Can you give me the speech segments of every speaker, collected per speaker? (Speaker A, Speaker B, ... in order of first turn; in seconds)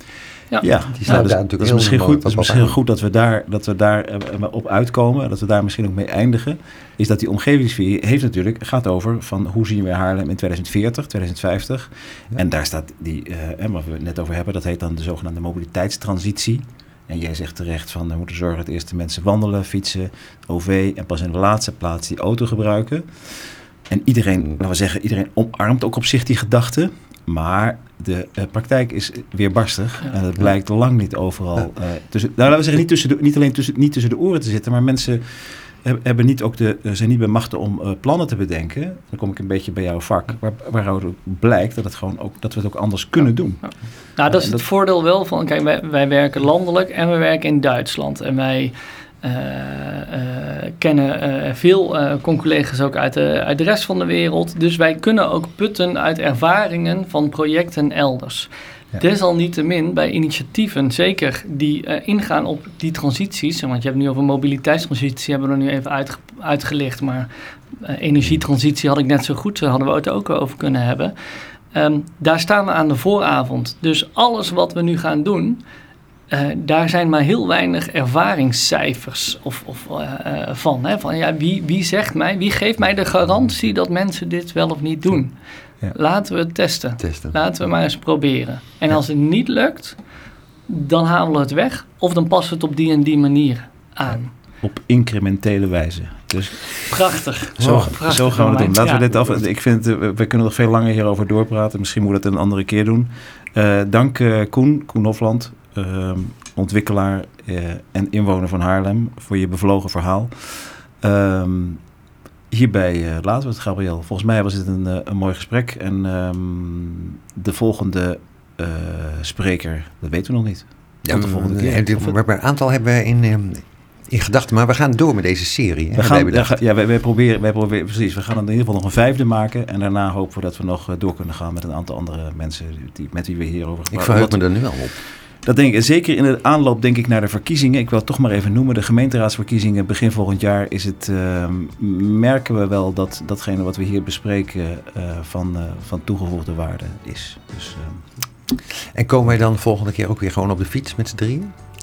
Speaker A: 0.5-1.2, 43.6-71.1, 71.7-75.6, 76.3-85.3, 85.9-90.0, 90.7-94.3, 96.9-99.1
Speaker B: 0.6-44.6, 94.6-111.8, 112.5-122.2, 126.0-134.9, 135.4-148.0
Speaker C: 1.0-2.8, 87.0-87.3, 97.6-97.9, 121.0-126.5, 133.9-134.9, 148.7-151.5